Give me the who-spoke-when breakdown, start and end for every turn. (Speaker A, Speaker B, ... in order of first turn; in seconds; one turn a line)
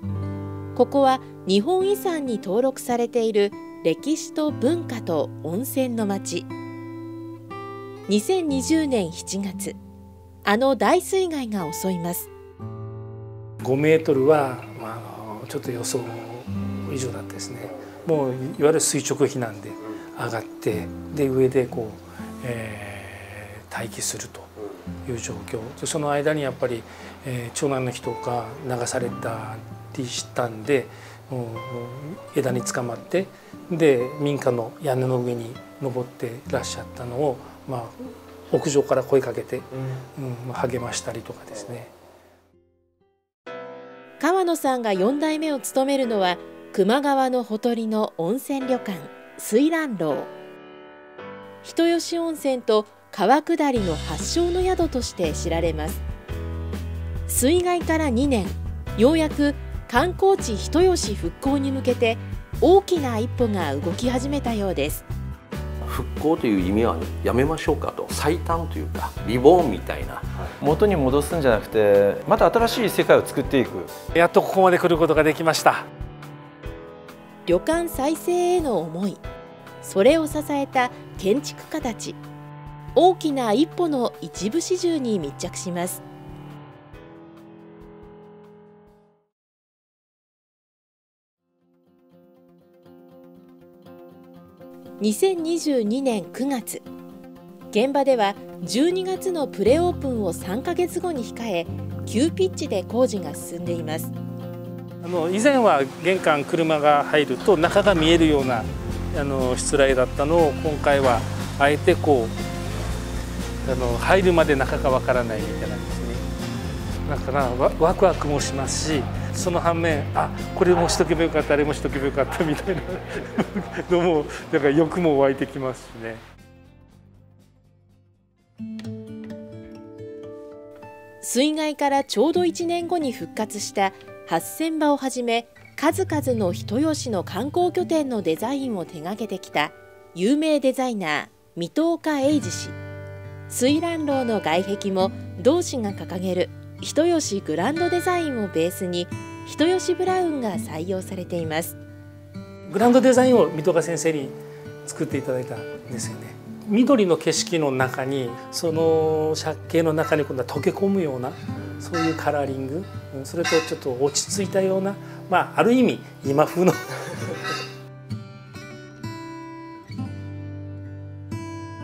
Speaker A: 0.8-6.5
Speaker A: 8.1-9.8
Speaker A: 10.4-12.3
Speaker B: 13.6-24.5
Speaker B: 25.1-41.9
Speaker A: 44.2-50.3
Speaker A: 51.6-56.0
Speaker A: 57.3-65.0
Speaker C: 65.8-70.5
Speaker D: 70.6-73.9
Speaker B: 74.1-75.9
Speaker A: 77.5-79.2
Speaker A: 79.8-82.2
Speaker A: 83.0-86.0
Speaker A: 95.0-96.8
Speaker A: 97.7-104.1
Speaker B: 105.0-112.4
Speaker B: 113.6-116.3
Speaker B: 117.1-126.2
Speaker A: 131.2-142.8
Speaker A: 143.5-151.8
Speaker B: 152.7-166.8